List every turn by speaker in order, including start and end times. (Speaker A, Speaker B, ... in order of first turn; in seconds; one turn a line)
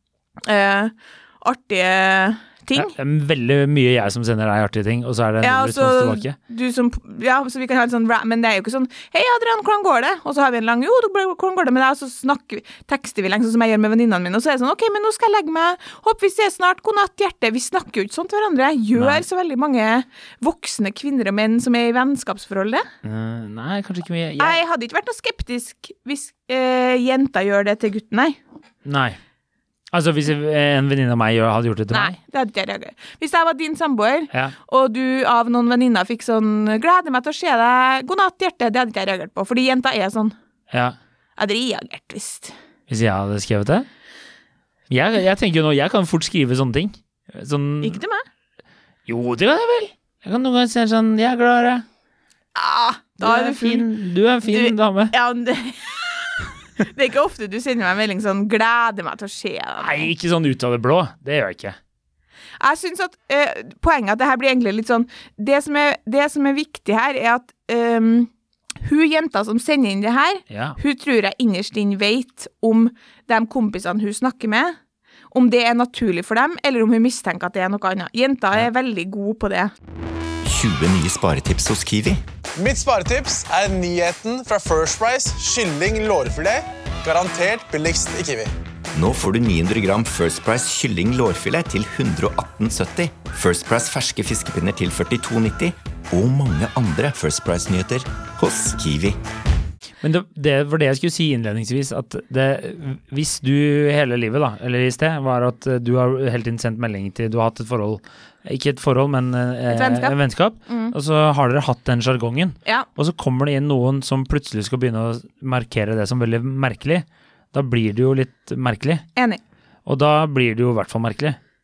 Speaker A: 0.4-2.9
Speaker B: 2.7-6.3
Speaker A: 5.4-22.9
Speaker B: 18.9-19.2
Speaker B: 23.0-24.6
Speaker A: 24.4-28.4
Speaker B: 28.8-29.2
Speaker B: 29.9-32.1
Speaker A: 31.9-40.3
Speaker B: 40.7-41.0
Speaker A: 41.4-42.5
Speaker B: 42.9-43.9
Speaker B: 44.9-48.0
Speaker A: 47.8-48.2
Speaker B: 49.0-51.9
Speaker A: 52.5-53.9
Speaker B: 53.2-55.1
Speaker A: 54.5-60.1
Speaker B: 59.8-61.8
Speaker A: 62.6-68.3
Speaker A: 68.8-74.8
Speaker B: 70.5-70.8
Speaker A: 75.3-79.7
Speaker C: 80.4-82.2
Speaker D: 82.6-88.5
Speaker C: 88.9-99.2
Speaker B: 100.0-119.0
Speaker A: 109.7-110.9
Speaker B: 119.8-121.4